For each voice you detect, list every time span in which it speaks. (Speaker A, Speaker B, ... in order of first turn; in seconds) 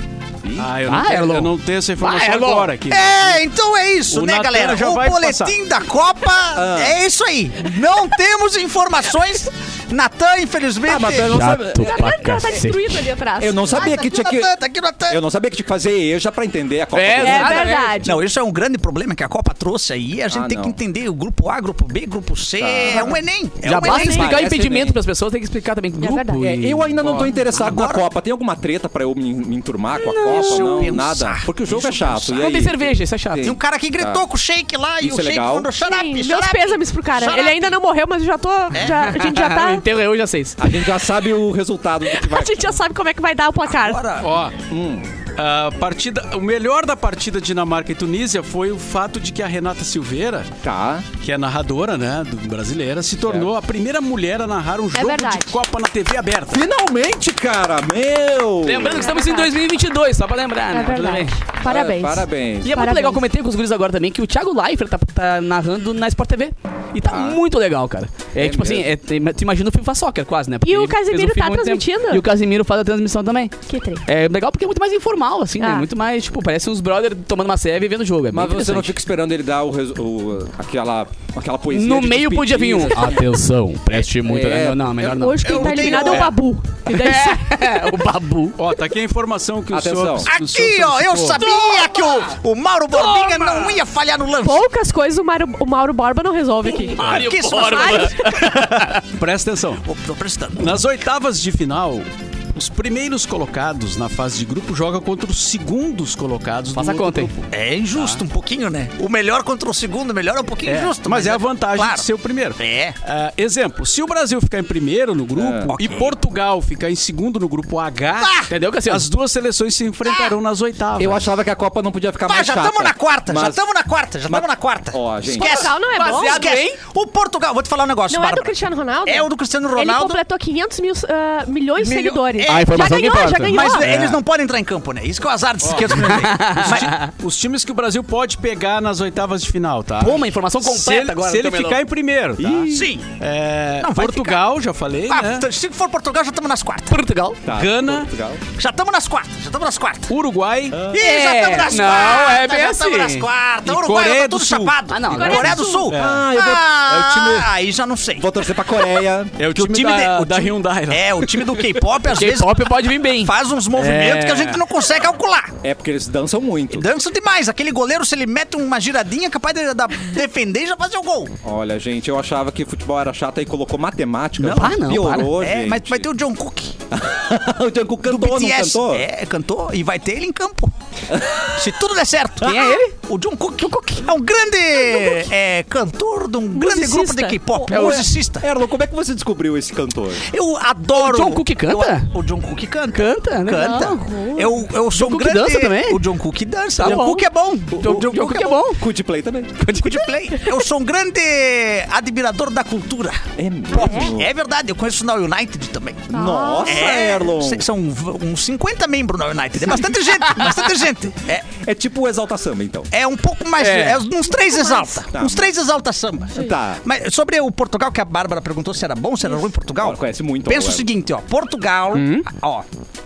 Speaker A: 0.4-0.7, 6.5-7.0, 10.8-12.1, 13.4-14.5, 15.1-17.7, 20.3-20.8, 22.6-23.2, 23.8-25.0, 26.4-34.2, 35.0-35.7, 40.6-42.8, 44.7-45.1, 50.6-51.0, 53.2-53.5, 56.5-59.1, 61.6-62.7, 67.0-67.4, 68.4-68.9, 78.3-83.4, 84.2-86.3, 89.7-90.3, 115.3-115.7, 121.0-123.6, 124.3-125.7, 142.4-142.9, 147.4-148.4, 150.7-151.0, 155.9-157.0, 158.2-159.3, 165.6-166.9, 171.4-176.1, 176.9-179.1, 181.1-181.5, 187.7-190.3, 197.8-199.6, 203.4-204.3, 206.1-207.7, 211.5-212.9, 215.1-215.5, 216.3-216.8, 219.8-220.9
Speaker B: 0.6-3.4, 4.1-5.5, 44.2-44.5, 45.4-50.5, 51.2-56.6, 88.6-91.4, 99.0-99.8, 100.5-108.2, 110.6-121.2, 133.9-134.2, 135.6-145.5, 147.5-148.1, 150.1-150.9, 153.6-154.8, 155.9-156.3, 156.9-157.4, 159.4-161.6
Speaker C: 0.9-2.7, 11.3-13.0, 16.9-18.1, 23.6-27.3, 30.0-31.0, 32.4-33.5, 38.9-40.6, 58.6-61.3, 62.6-78.9, 81.7-86.1, 86.9-88.6, 91.4-91.9, 92.9-93.8, 96.6-99.0, 106.7-107.3, 118.5-119.1, 125.9-126.8, 132.4-134.0, 135.9-137.1, 140.0-141.8, 146.9-147.4, 150.9-153.3, 154.9-155.6, 162.0-164.6, 174.5-175.3, 182.4-182.9, 183.6-184.1, 187.7-188.1, 190.9-192.1, 192.9-194.1, 194.9-196.0, 196.8-198.8, 199.6-200.1, 213.6-214.1
Speaker D: 2.9-11.3, 13.7-15.2, 18.0-24.4, 27.5-28.0, 30.2-32.5, 33.4-37.7, 38.7-39.1, 43.6-44.3, 85.4-86.3, 90.3-94.6, 97.0-99.0, 99.8-100.8, 107.5-112.1, 112.6-113.0, 115.7-116.2, 118.2-118.5, 120.0-120.3, 122.2-130.2, 131.8-136.9, 142.7-143.1, 143.8-144.4, 145.1-147.0, 148.5-150.1, 150.9-158.3, 159.5-165.5, 166.7-171.3, 174.4-174.7, 175.3-176.8, 178.1-180.7, 181.5-188.4, 190.3-198.6, 199.7-211.5, 212.9-222.6
Speaker E: 11.7-14.0, 17.2-18.2, 23.8-24.2, 26.0-26.4, 35.8-39.8, 42.0-44.0, 54.9-55.6, 59.0-59.5, 60.7-63.2, 70.6-72.2, 73.7-74.0, 75.6-75.9, 85.1-87.9, 94.4-98.4, 125.3-126.4, 128.1-133.9, 155.1-155.9, 184.9-185.2, 186.5-187.4, 193.6-194.5, 203.8-204.1, 206.1-206.9, 214.3-215.0